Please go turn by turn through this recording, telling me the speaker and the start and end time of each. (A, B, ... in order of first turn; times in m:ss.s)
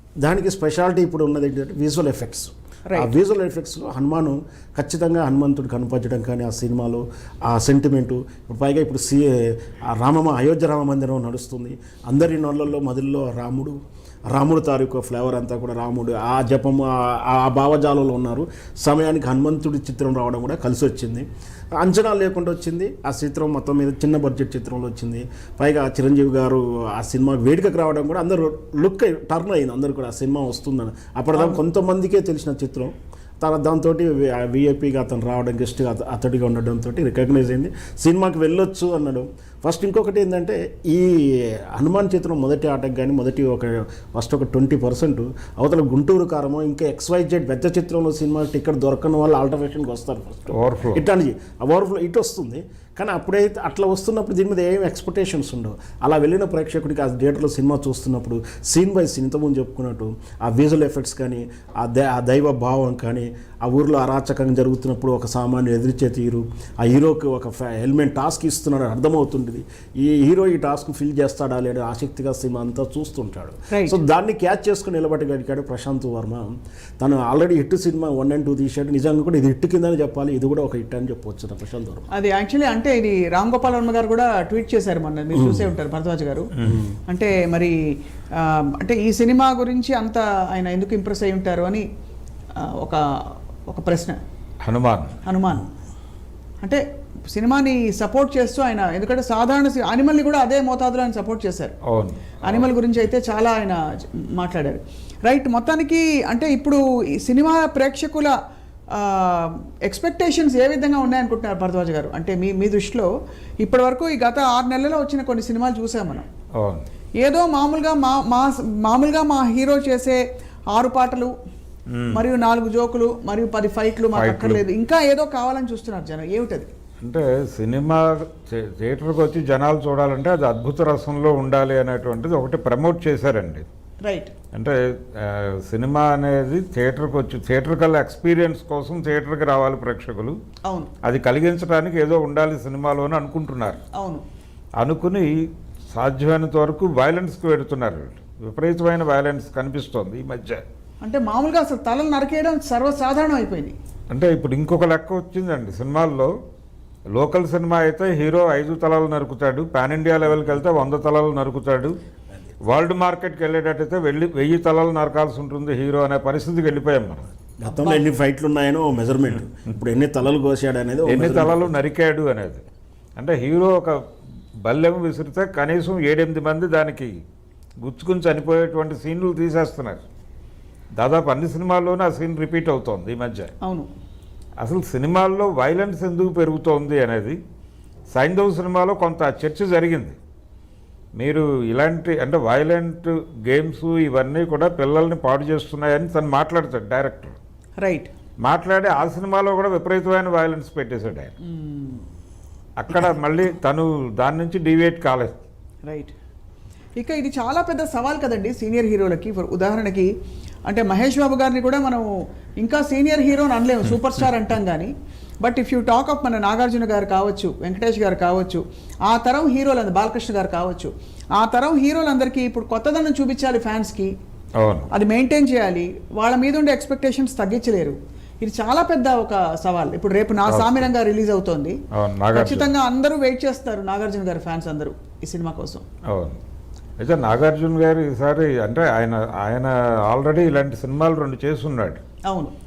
0:00.2-0:13.8 A
0:14.3-1:16.5 A
0:31.4-0:31.6 B
0:50.5-0:51.0 C
1:13.7-1:14.0 B
1:17.0-1:22.1 A
1:22.1-1:26.5 B
1:25.3-1:25.7 A
1:26.6-1:26.8 C
1:27.1-1:27.8 B
1:28.3-1:31.8 B
1:32.6-1:33.0 B
1:33.7-1:34.2 B
1:34.6-1:35.1 C
1:35.2-1:35.7 B
1:36.6-1:41.8 B
1:41.8-1:42.7 C
1:42.4-1:48.3 B
1:48.9-1:53.1 B
1:53.6-1:56.2 B
1:56.6-1:56.9 C
1:57.2-2:01.3 B
2:01.9-2:02.2 C
2:02.1-2:06.7 B
2:04.1-2:04.6 C
2:07.0-2:13.6 C
2:14.0-2:14.3 B
2:14.5-2:20.4 C
2:21.0-2:23.8 C
2:23.9-2:24.2 B
2:24.8-2:25.3 C
2:25.9-2:30.6 C
2:31.0-2:33.8 B
2:34.1-2:36.3 C
2:37.1-2:42.0 C
2:42.6-2:47.3 C
2:47.6-2:51.7 A
2:47.6-2:48.0 B
2:51.0-2:52.6 C
2:53.2-2:54.0 C
2:54.6-2:57.1 C
2:57.8-3:00.0 C
3:01.0-3:03.5 C
3:03.6-3:03.9 B
3:04.6-3:07.4 C
3:08.1-3:10.2 C
3:11.2-3:17.4 C
3:17.8-3:18.1 B
3:18.4-3:21.3 C
3:21.4-3:22.0 B
3:22.8-3:25.4 C
3:25.9-3:26.1 B
3:27.0-3:30.1 B
3:30.7-3:32.1 B
3:32.6-3:44.1 B
3:44.6-3:44.9 C
3:44.9-3:51.8 B
3:50.4-3:50.9 C
3:51.9-3:52.7 C
3:52.3-3:55.8 B
3:56.1-3:56.4 C
3:57.0-4:02.0 C
4:02.3-4:02.5 B